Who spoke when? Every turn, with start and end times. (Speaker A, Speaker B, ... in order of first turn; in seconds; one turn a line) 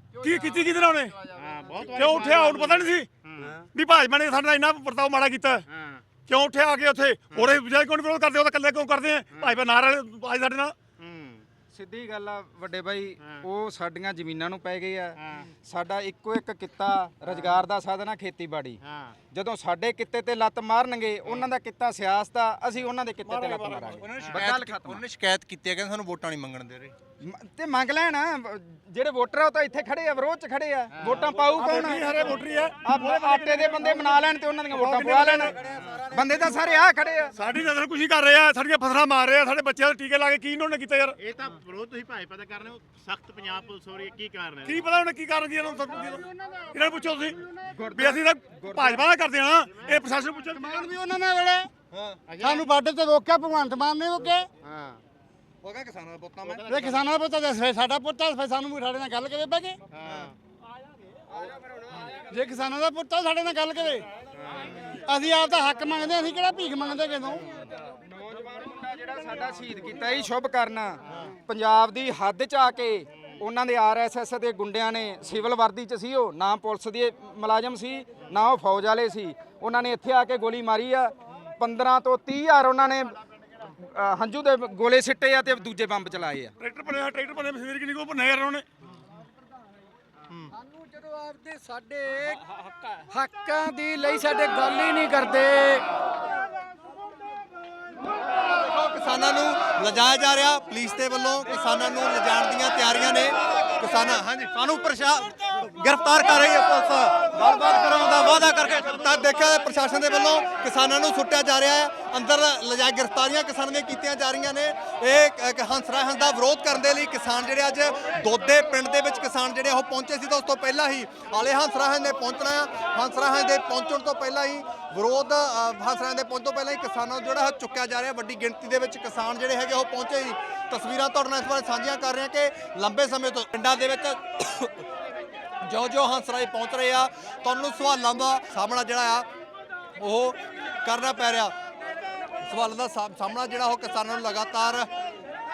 Speaker A: 0.2-1.2
Speaker B: 1.3-3.6
Speaker A: 1.9-3.1
Speaker A: 3.7-5.6
Speaker B: 5.7-6.0
Speaker A: 6.3-10.7
Speaker B: 11.0-11.4
Speaker C: 11.7-18.8
Speaker B: 18.8-19.2
Speaker C: 19.3-25.0
Speaker A: 23.2-24.0
Speaker D: 24.0-26.9
Speaker C: 27.2-32.3
Speaker A: 31.5-35.5
Speaker C: 32.8-35.5
Speaker D: 35.7-36.4
Speaker C: 36.1-37.3
Speaker A: 37.4-41.1
Speaker B: 41.2-44.8
Speaker A: 44.6-47.4
Speaker C: 47.7-49.0
Speaker A: 47.9-50.9
Speaker E: 50.5-51.7
Speaker D: 51.9-52.2
Speaker B: 52.3-52.7
Speaker E: 52.4-54.5
Speaker B: 54.6-55.0
Speaker D: 55.6-56.7
Speaker B: 56.5-57.0
Speaker E: 56.6-59.8
Speaker B: 59.9-60.3
Speaker C: 61.3-62.1
Speaker E: 62.3-64.0
Speaker B: 64.4-64.7
Speaker E: 65.0-67.4
Speaker C: 67.5-86.5
Speaker A: 86.6-88.6
Speaker F: 90.6-92.4
Speaker F: 93.1-95.9
Speaker D: 98.5-134.8
Speaker D: 135.6-139.3
Speaker D: 140.0-141.6
Speaker D: 142.4-144.9